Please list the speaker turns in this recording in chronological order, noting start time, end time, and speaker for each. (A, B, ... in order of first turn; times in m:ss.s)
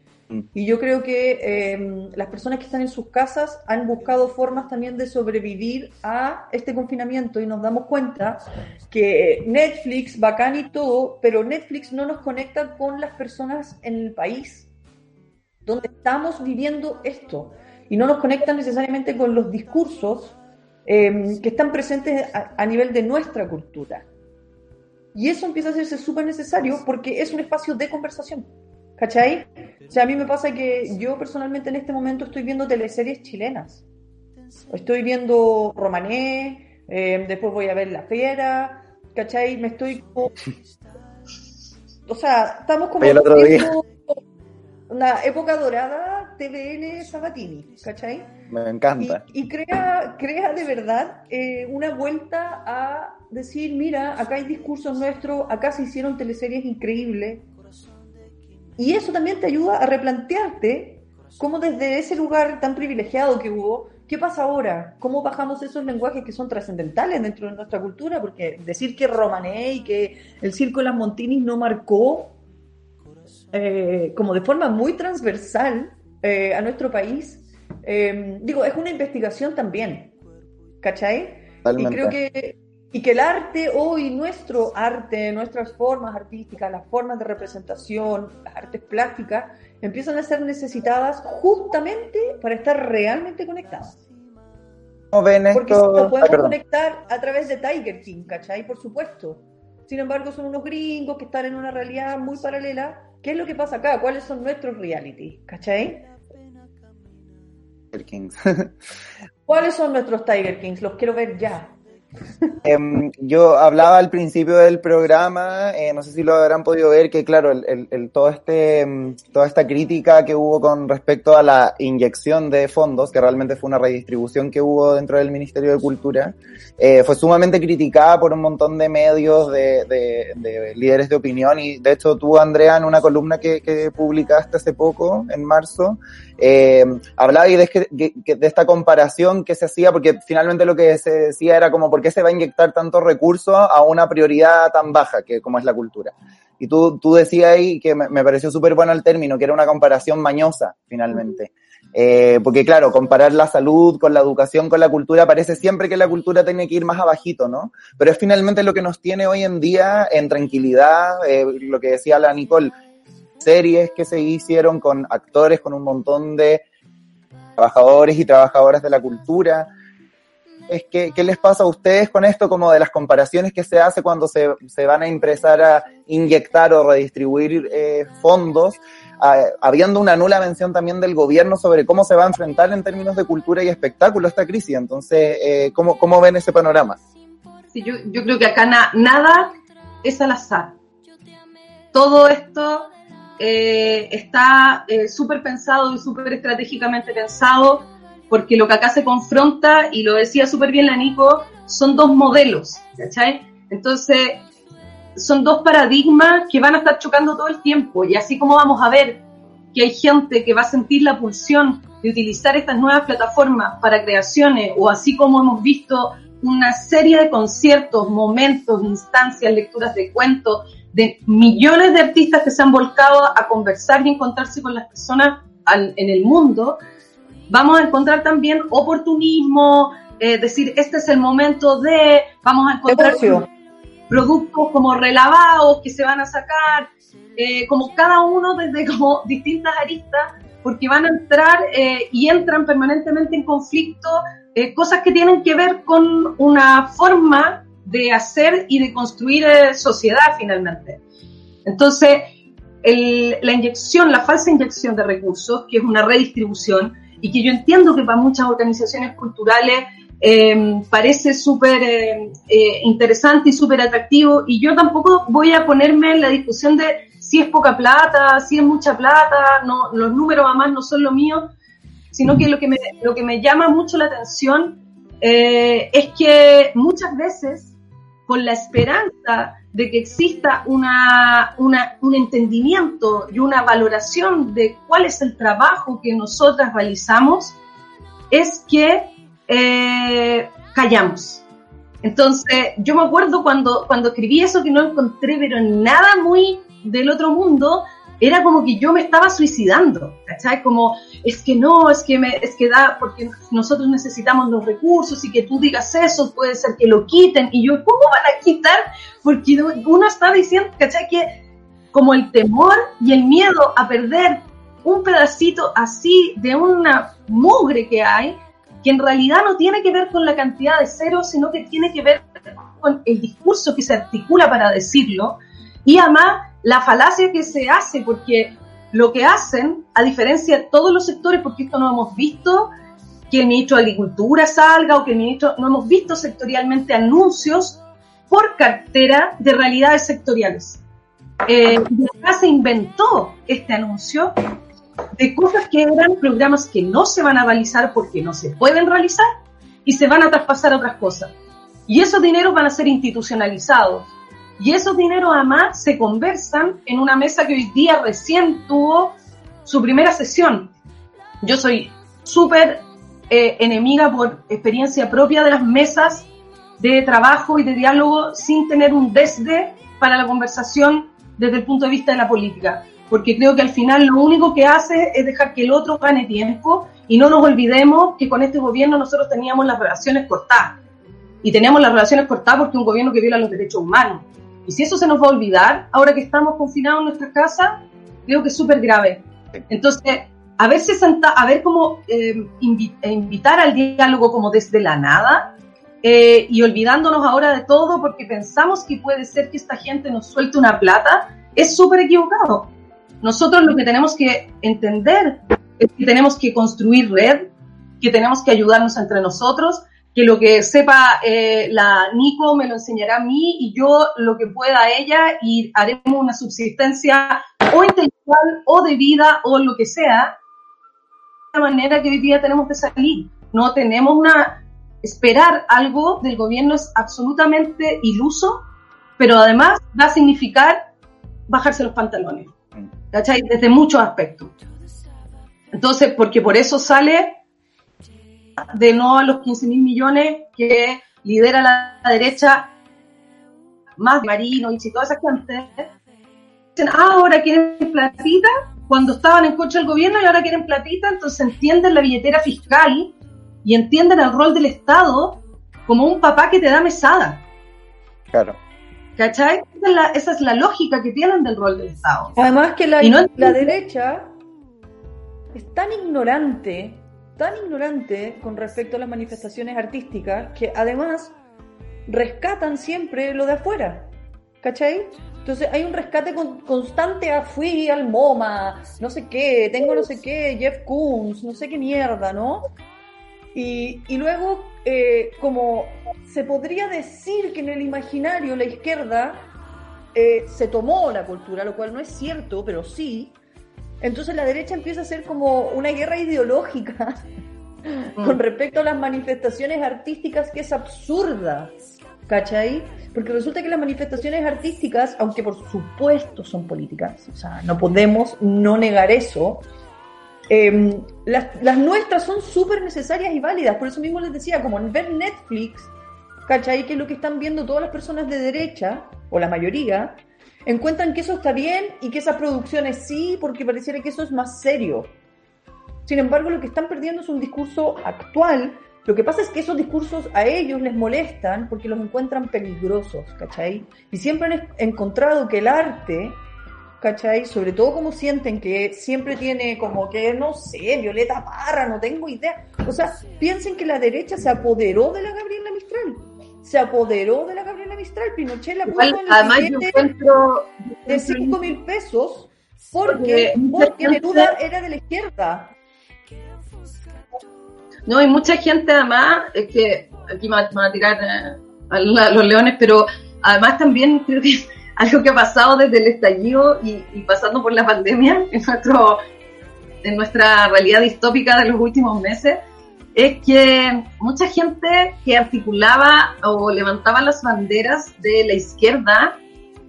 0:00.5-0:14.7 A
0:15.6-0:24.0 A
0:25.1-0:33.8 A
0:34.7-0:40.4 A
0:42.1-0:44.2 A
0:43.0-0:43.7 B
0:44.9-0:48.3 A
0:48.5-0:49.2 B
0:49.0-0:57.4 A
0:58.8-1:12.4 A
1:13.5-1:20.1 A
1:20.8-1:34.0 A
1:21.6-1:22.1 B
1:35.1-1:36.5 B
1:35.5-1:46.1 A
1:47.9-1:48.8 B
1:49.5-1:51.7 A
1:52.6-2:42.7 B
2:43.4-2:46.6 B
2:47.6-2:49.7 B
2:50.7-3:07.0 B
3:07.7-3:10.8 C
3:11.9-3:24.4 C
3:25.2-3:29.2 C
3:29.7-3:46.8 C
3:47.5-3:53.5 C
3:52.9-3:53.5 A
3:54.1-4:11.0 C
4:11.6-4:12.3 C
4:12.8-4:31.5 C
4:32.1-4:37.7 C
4:38.3-4:47.6 C
4:48.3-4:51.4 C
4:52.0-5:11.4 C
5:11.9-5:32.7 C
5:33.3-5:40.8 C
5:41.4-5:44.4 C
5:45.1-5:49.3 C
5:49.8-5:51.3 C
5:51.9-6:00.7 C
6:01.4-6:20.8 C
6:21.4-7:00.4 C
7:01.5-7:08.6 C
7:09.2-7:10.8 C
7:11.5-7:12.5 C
7:13.1-7:14.5 C
7:15.7-7:17.4 C
7:18.6-7:22.7 C
7:24.0-7:25.9 C
7:26.7-7:37.4 C
7:38.3-7:38.6 B
7:39.2-7:42.3 C
7:42.4-7:44.3 A
7:43.0-7:43.7 C
7:45.5-7:51.3 A
7:52.1-7:54.1 A
7:54.6-8:02.7 A
8:03.5-8:09.5 A
8:10.1-8:13.4 A
8:14.0-8:17.2 A
8:18.2-8:18.4 C
8:18.2-8:21.7 A
8:22.3-8:29.6 A
8:30.5-8:35.9 A
8:36.4-8:45.1 A
8:46.0-8:56.4 A
8:57.0-9:10.1 A
9:08.8-9:11.6 C
9:11.1-9:15.7 A
9:13.0-9:14.5 C
9:18.0-9:29.2 C
9:30.0-9:32.6 C
9:33.1-9:39.4 C